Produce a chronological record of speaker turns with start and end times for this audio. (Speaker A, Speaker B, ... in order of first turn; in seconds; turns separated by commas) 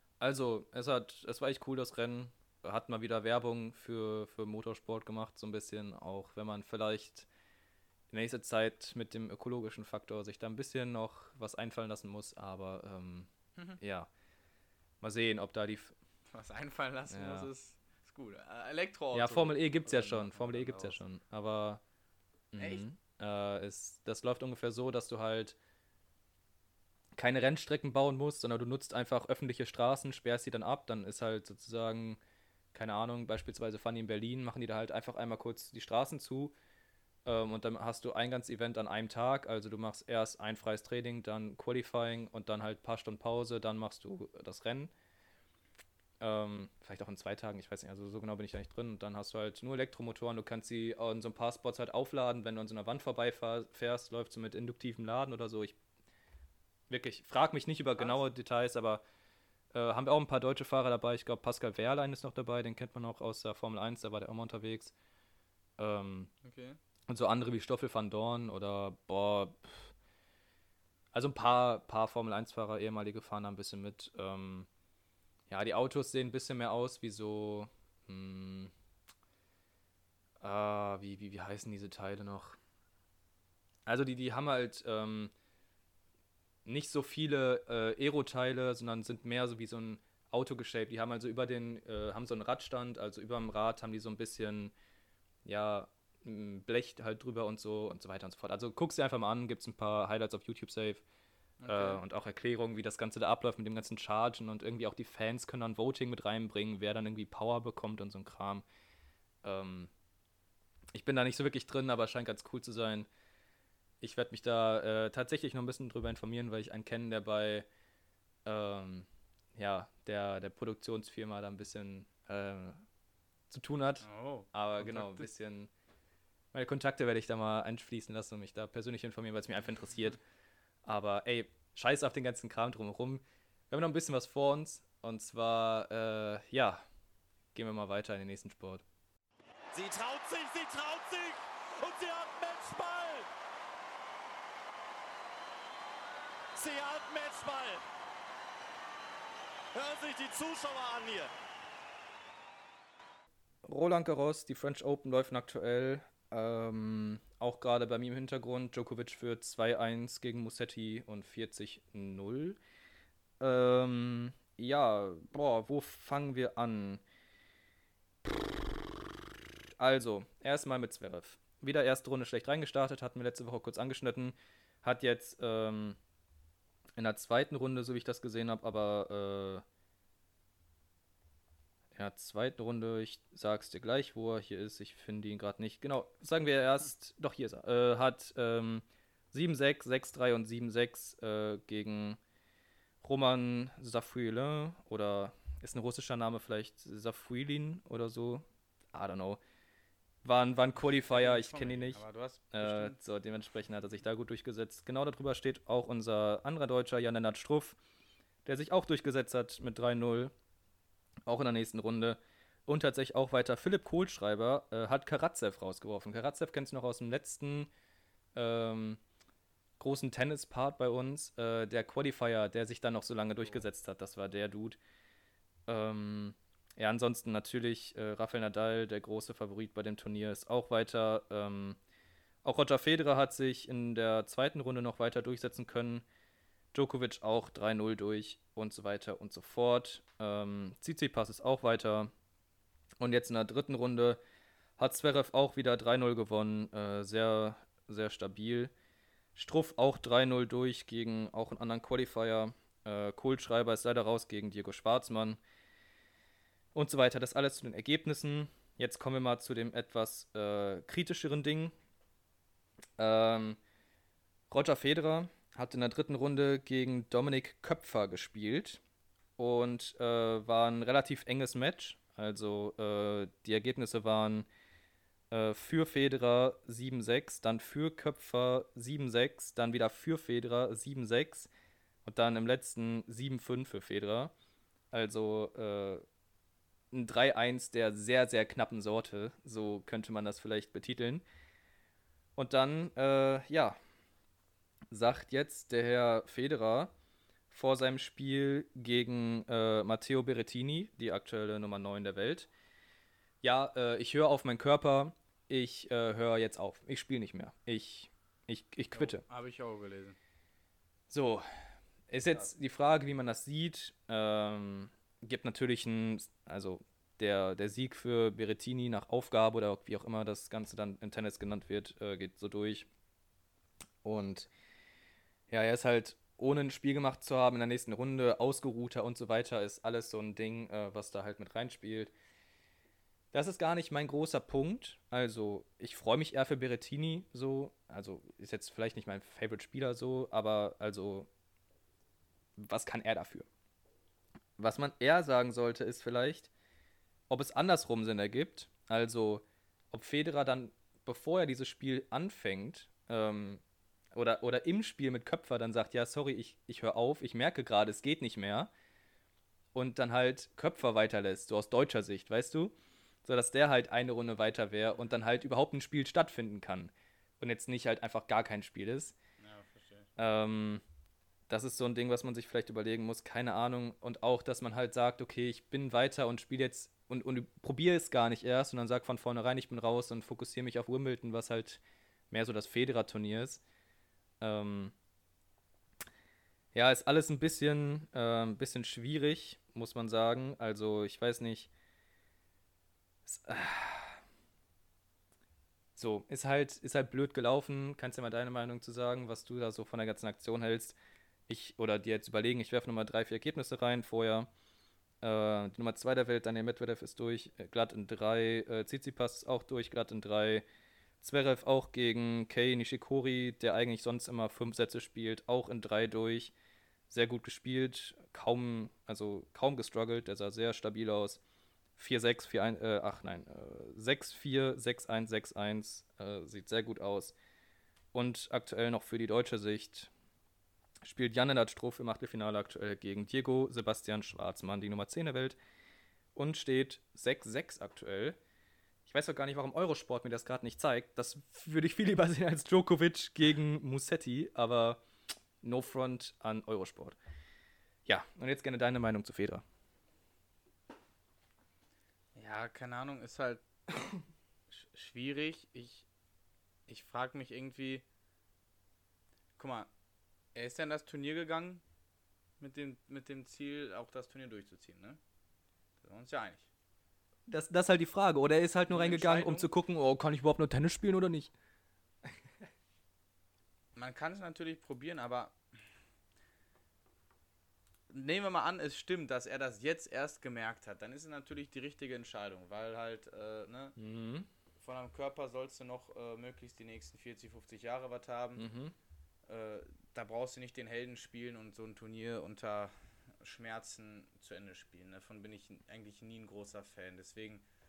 Speaker A: 0.2-7.3, Speaker A: 8.1-13.3, Speaker A: 13.8-14.1, Speaker A: 15.0-16.0, Speaker B: 16.3-21.0, Speaker A: 17.1-17.5, Speaker A: 19.1-21.8, Speaker A: 22.5-25.6, Speaker B: 22.6-22.9, Speaker A: 27.1-32.2, Speaker A: 32.7-36.5, Speaker A: 37.2-44.9, Speaker A: 46.2-55.8, Speaker A: 56.9-59.0, Speaker A: 59.7-65.0, Speaker A: 65.8-66.3, Speaker B: 66.4-66.8, Speaker A: 67.1-69.9, Speaker A: 71.1-74.7, Speaker A: 75.5-78.7, Speaker A: 80.4-82.6, Speaker A: 83.9-85.3, Speaker A: 86.7-94.7, Speaker A: 95.5-101.0, Speaker B: 101.6-102.0, Speaker A: 101.7-108.7, Speaker A: 109.4-109.9, Speaker A: 110.9-113.1, Speaker A: 114.0-117.7, Speaker A: 118.5-122.8, Speaker A: 123.5-125.7, Speaker B: 124.0-125.3, Speaker A: 126.5-130.2, Speaker A: 130.8-136.8, Speaker A: 137.5-138.8, Speaker C: 139.7-143.3, Speaker C: 146.5-147.8, Speaker C: 149.7-151.3, Speaker A: 153.6-162.6, Speaker A: 163.4-167.0, Speaker A: 168.2-168.5, Speaker A: 169.8-176.0, Speaker A: 177.0-179.6, Speaker A: 181.9-192.2, Speaker A: 193.0-199.4, Speaker A: 200.2-207.8, Speaker B: 200.8-203.0, Speaker A: 208.4-210.3, Speaker A: 211.3-217.7, Speaker A: 218.3-219.0, Speaker A: 219.8-224.8, Speaker A: 225.7-231.8, Speaker A: 232.4-236.0, Speaker A: 236.7-242.1, Speaker A: 243.0-244.2, Speaker A: 244.8-248.7, Speaker A: 249.3-255.4, Speaker A: 256.7-261.8, Speaker A: 263.0-263.6, Speaker A: 264.5-268.8, Speaker A: 269.4-274.5, Speaker A: 275.3-281.5, Speaker A: 282.1-284.3, Speaker A: 284.9-286.0, Speaker A: 286.9-291.2, Speaker A: 292.4-293.8, Speaker A: 294.9-296.9, Speaker A: 297.5-302.5, Speaker A: 303.4-309.2, Speaker B: 308.9-310.2, Speaker A: 311.1-311.5, Speaker A: 312.1-322.9, Speaker A: 324.0-324.5, Speaker A: 325.5-332.1, Speaker A: 333.3-341.3, Speaker A: 342.6-343.5, Speaker A: 344.6-346.5, Speaker A: 347.3-353.6, Speaker A: 354.1-358.7, Speaker A: 359.7-369.1, Speaker B: 369.4-370.1, Speaker A: 370.2-370.8, Speaker A: 371.5-383.6, Speaker A: 384.4-384.9, Speaker A: 386.7-391.7, Speaker A: 393.3-394.2, Speaker A: 396.0-401.0, Speaker A: 401.5-404.5, Speaker A: 405.2-410.6, Speaker A: 411.2-416.5, Speaker A: 417.1-421.4, Speaker A: 422.0-427.4, Speaker A: 428.1-430.1, Speaker A: 431.0-435.6, Speaker A: 436.4-438.4, Speaker A: 439.1-445.0, Speaker A: 445.6-447.2, Speaker A: 448.1-449.6, Speaker B: 452.4-453.6, Speaker B: 454.7-456.1, Speaker B: 456.9-458.0, Speaker B: 459.6-459.9, Speaker B: 460.6-461.8, Speaker B: 462.6-465.2, Speaker B: 466.0-466.7, Speaker A: 467.5-471.5, Speaker B: 468.9-469.7, Speaker B: 474.0-475.6, Speaker B: 478.1-484.0, Speaker A: 484.0-484.5, Speaker B: 484.8-488.7, Speaker A: 488.6-488.9, Speaker B: 489.5-497.6